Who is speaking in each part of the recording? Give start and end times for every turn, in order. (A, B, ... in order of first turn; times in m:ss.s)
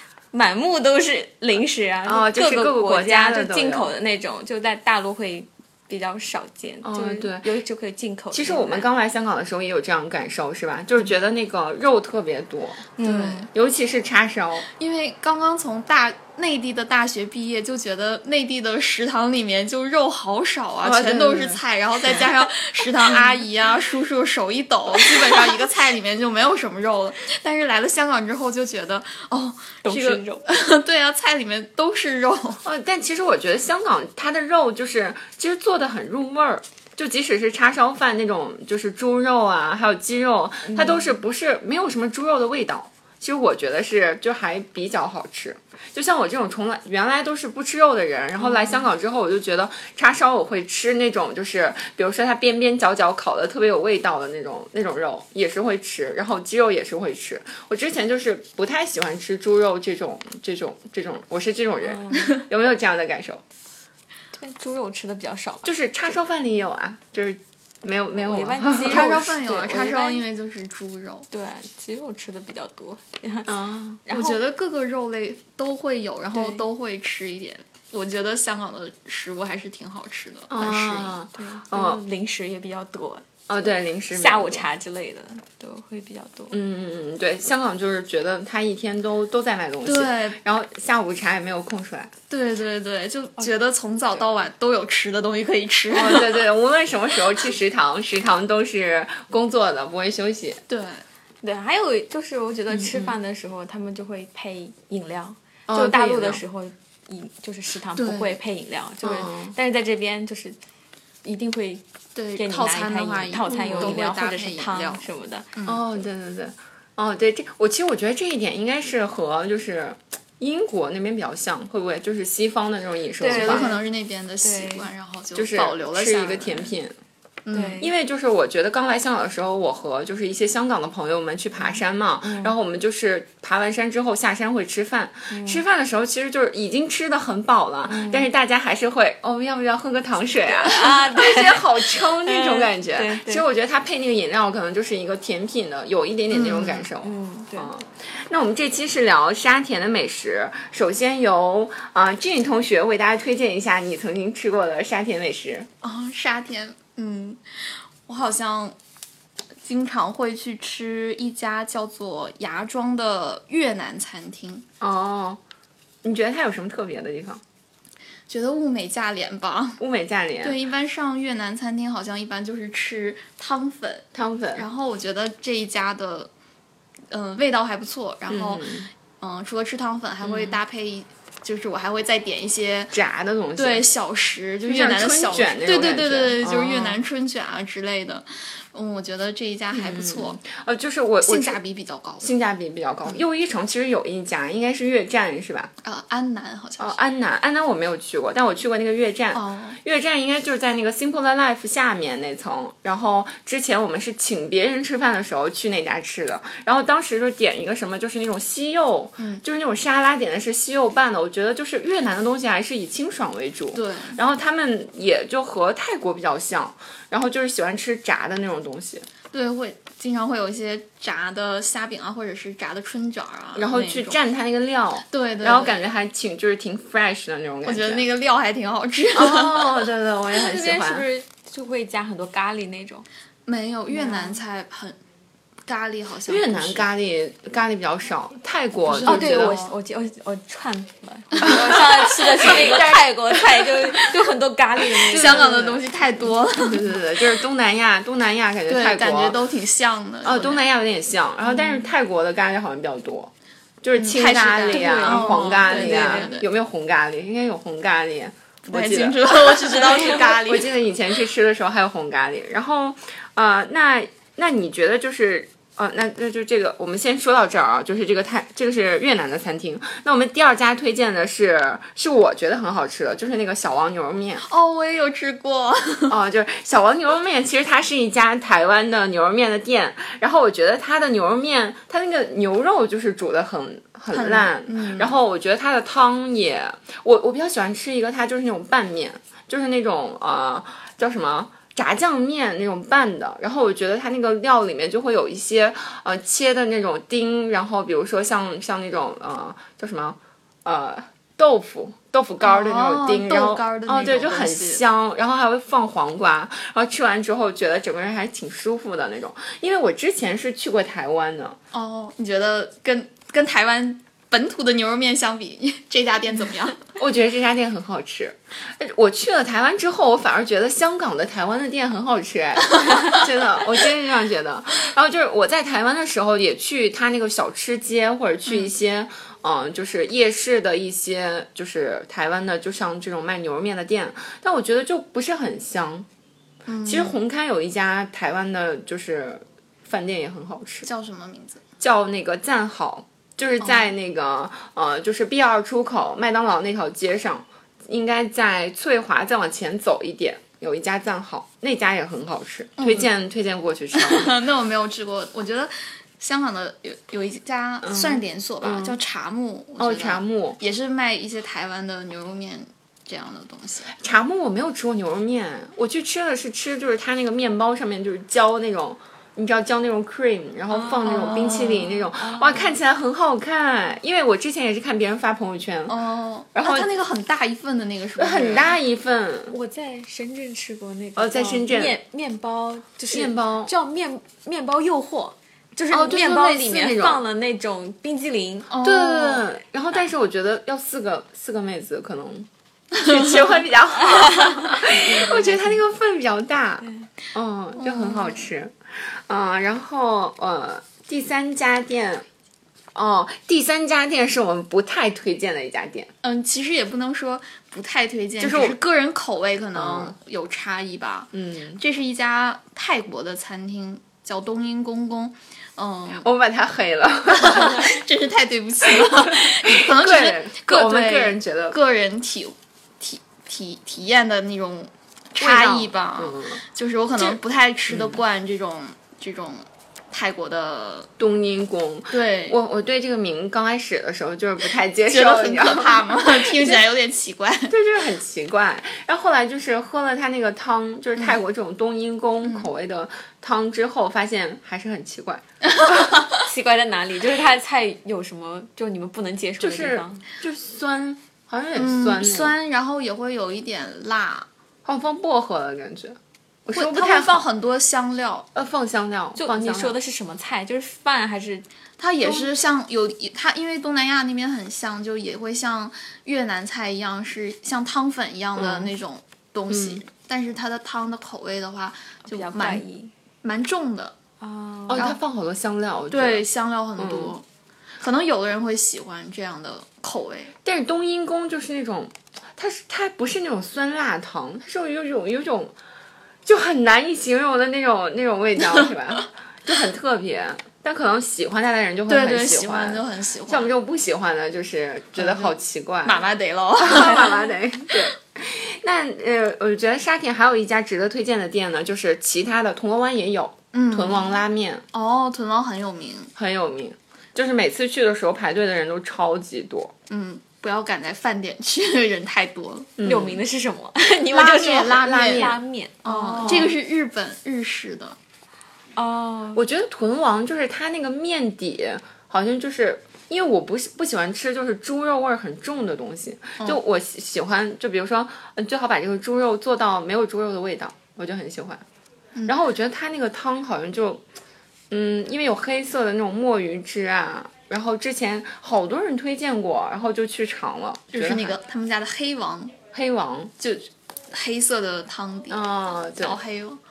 0:00.3-0:08.9 A
0:02.0-0:03.9 B
0:06.8-0:07.5 B
0:08.3-0:12.9 B
0:13.0-0:13.5 A
0:13.0-0:13.5 C
0:13.5-0:14.7 B
0:14.8-0:32.6 C
0:20.8-0:22.2 B
0:29.8-0:30.4 A
0:32.6-1:03.4 B
0:40.7-0:41.1 A
0:48.4-0:48.9 A
1:01.8-1:02.3 A
1:04.3-1:05.7 A
1:05.6-1:09.2 B
1:08.1-1:10.3 A
1:08.8-1:11.3 C
1:11.3-1:13.5 A
1:13.5-1:14.0 B
1:14.0-1:14.4 A
1:14.1-1:21.2 C
1:16.3-1:16.6 A
1:20.5-1:22.0 B
1:21.4-1:23.4 A
1:23.5-1:24.7 B
1:24.1-1:26.6 A
1:26.5-1:32.1 B
1:29.8-1:30.4 C
1:32.3-1:36.4 C
1:35.9-1:40.6 B
1:40.7-1:41.0 C
1:41.4-1:50.6 A
1:42.7-1:43.2 B
1:45.7-1:46.4 B
1:48.0-1:48.4 C
1:49.0-1:49.5 B
1:51.2-1:51.8 A
1:52.2-1:55.8 C
1:52.4-1:55.5 A
1:53.5-1:54.0 B
1:55.7-2:03.7 B
2:03.2-2:03.9 A
2:03.3-2:06.7 C
2:04.4-2:04.9 A
2:05.4-2:06.9 B
2:07.5-2:07.8 C
2:07.5-2:07.9 A
2:07.8-2:35.7 B
2:11.6-2:12.6 A
2:15.3-2:15.6 A
2:17.8-2:18.3 A
2:20.5-2:23.4 A
2:26.3-2:26.9 C
2:27.0-2:27.7 A
2:35.8-2:38.8 C
2:39.6-2:44.7 C
2:44.8-2:45.4 B
2:46.0-2:47.4 B
2:48.3-2:49.8 C
2:49.8-2:50.6 B
2:50.4-2:56.3 C
2:54.2-2:54.7 B
2:57.1-3:03.0 C
2:58.3-2:58.9 B
3:00.2-3:00.6 B
3:02.9-3:03.8 B
3:03.6-3:10.4 C
3:04.6-3:07.0 B
3:09.7-3:11.6 B
3:11.2-3:12.3 C
3:12.2-3:15.7 B
3:15.8-3:17.0 C
3:16.8-3:39.1 B
3:19.3-3:19.8 C
3:29.2-3:29.4 C
3:33.7-3:34.2 C
3:39.3-3:44.2 C
3:43.6-3:48.0 B
3:45.1-3:45.9 C
3:47.6-3:49.9 C
3:49.1-3:51.1 B
3:50.3-3:53.1 A
3:53.5-3:55.0 C
3:53.9-3:54.4 A
3:55.7-3:56.9 C
3:56.3-3:59.6 B
3:58.9-3:59.7 C
3:59.0-4:05.8 A
4:01.4-4:03.7 B
4:05.0-4:06.9 C
4:05.1-4:05.7 B
4:06.6-4:09.4 B
4:08.7-4:10.7 C
4:10.2-4:34.4 B
4:14.0-4:16.5 C
4:14.7-4:16.4 A
4:18.7-4:20.8 C
4:34.4-4:36.2 C
4:36.1-5:11.6 B
4:44.1-4:45.2 C
5:02.4-5:04.8 C
5:11.7-5:16.9 C
5:17.0-5:36.1 B
5:36.7-5:37.2 C
5:36.8-5:40.9 B
5:40.8-5:41.6 C
5:41.8-5:54.4 B
5:52.8-5:53.1 C
5:53.9-6:03.9 C
5:57.8-5:59.0 B
5:59.8-6:00.6 B
6:04.0-6:16.0 B
6:10.7-6:12.0 C
6:12.1-6:12.8 A
6:15.9-6:18.8 C
6:16.5-6:17.0 B
6:18.2-6:19.6 B
6:19.5-6:28.7 A
6:21.2-6:22.0 B
6:23.1-6:23.7 B
6:25.9-6:27.2 B
6:28.7-6:29.5 C
6:28.8-6:42.3 B
6:34.0-6:35.8 A
6:37.8-6:38.5 C
6:43.0-6:46.1 B
6:46.2-6:56.3 C
6:48.4-6:48.8 B
6:49.8-6:50.1 B
6:51.3-6:51.8 B
6:56.2-6:58.0 B
6:57.3-7:11.1 C
6:59.0-7:01.8 B
7:05.4-7:06.6 B
7:07.9-7:08.2 B
7:11.2-7:16.8 B
7:12.1-7:12.6 C
7:15.1-7:17.7 C
7:17.7-7:25.4 B
7:22.4-7:22.7 C
7:25.6-7:26.4 C
7:26.3-7:30.2 A
7:29.6-7:32.6 B
7:31.8-7:34.5 C
7:34.8-7:37.5 B
7:36.7-7:38.5 C
7:38.6-7:40.0 B
7:39.4-7:41.6 A
7:42.0-7:52.8 C
7:42.2-7:42.5 B
7:48.6-7:48.9 B
7:49.7-7:50.0 B
7:52.2-7:53.1 A
7:53.4-7:54.2 C
7:54.4-7:55.1 A
7:54.9-7:56.4 B
7:56.1-7:57.4 C
7:57.0-7:57.4 B
7:58.0-8:00.5 C
8:00.6-8:05.7 B
8:06.5-8:16.3 B
8:12.1-8:13.8 C
8:15.2-8:17.5 C
8:16.8-8:24.8 B
8:23.7-8:24.4 C
8:24.9-8:26.3 C
8:26.4-8:29.9 B
8:30.1-8:32.9 C
8:33.0-8:33.4 B
8:33.0-8:36.8 A
8:34.3-8:35.6 B
8:34.4-8:35.5 C
8:36.0-8:38.2 C
8:39.0-8:39.6 A
8:39.6-8:51.8 B
8:52.5-8:54.2 B
8:54.9-9:01.6 B
9:01.1-9:02.8 C
9:02.9-9:03.5 B
9:03.6-9:06.8 C
9:05.5-9:06.4 B